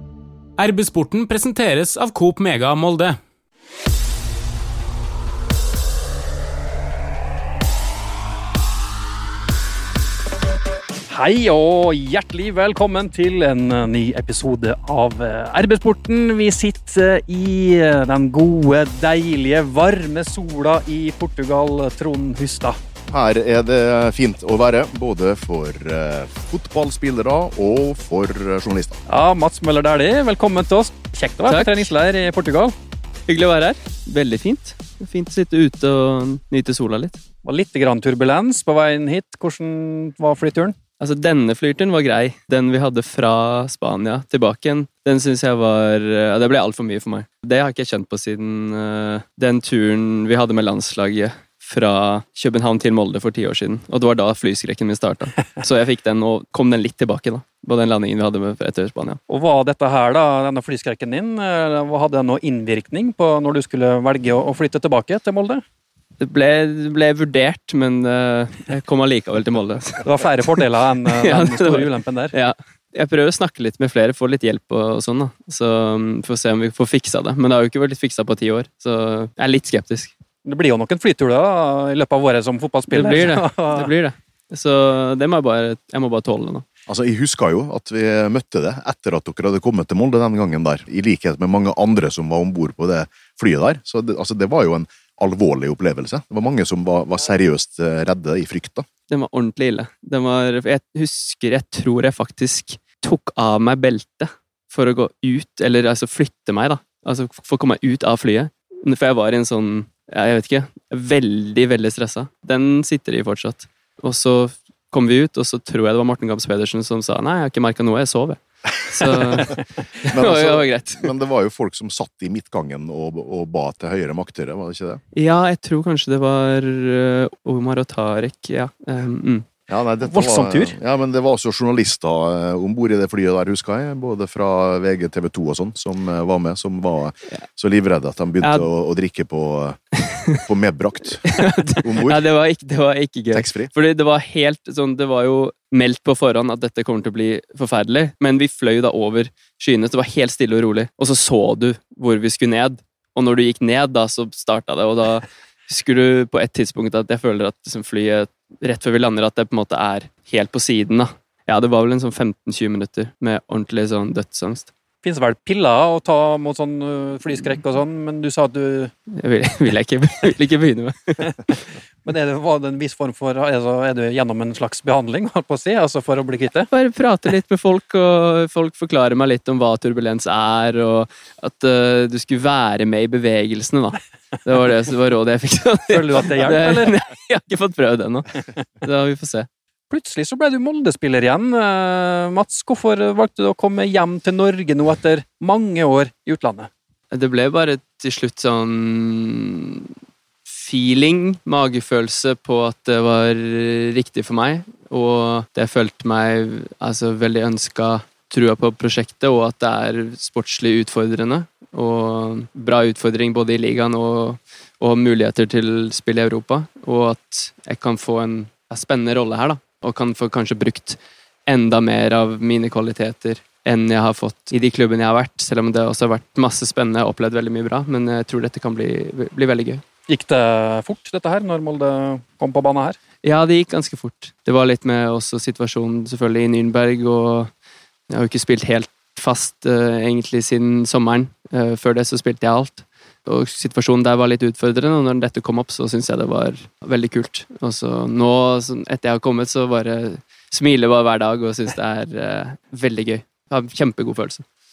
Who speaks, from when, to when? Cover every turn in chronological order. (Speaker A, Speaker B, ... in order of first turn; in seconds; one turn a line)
Speaker A: 0.6-3.2
Speaker B: 11.1-22.8
Speaker C: 23.1-29.0
Speaker B: 29.1-32.7
Speaker D: 31.5-31.9
Speaker D: 33.3-37.2
Speaker B: 37.4-40.8
Speaker D: 41.0-59.2
Speaker B: 59.3-65.6
Speaker D: 66.2-80.1
Speaker B: 70.0-72.3
Speaker B: 80.4-83.9
Speaker D: 82.9-86.6
Speaker C: 86.9-98.8
Speaker D: 99.1-121.1
Speaker C: 119.0-119.4
Speaker C: 120.0-125.0
Speaker D: 125.1-129.4
Speaker C: 129.7-139.8
Speaker B: 130.1-130.7
Speaker D: 140.1-140.4
Speaker C: 140.4-142.2
Speaker D: 141.2-164.7
Speaker C: 143.3-143.7
Speaker B: 165.0-168.9
Speaker D: 169.1-171.6
Speaker B: 172.0-176.7
Speaker D: 176.7-189.5
Speaker B: 185.9-186.9
Speaker B: 189.9-196.7
Speaker D: 197.1-199.9
Speaker D: 200.4-229.8
Speaker B: 230.1-233.0
Speaker D: 233.2-237.5
Speaker D: 238.1-254.4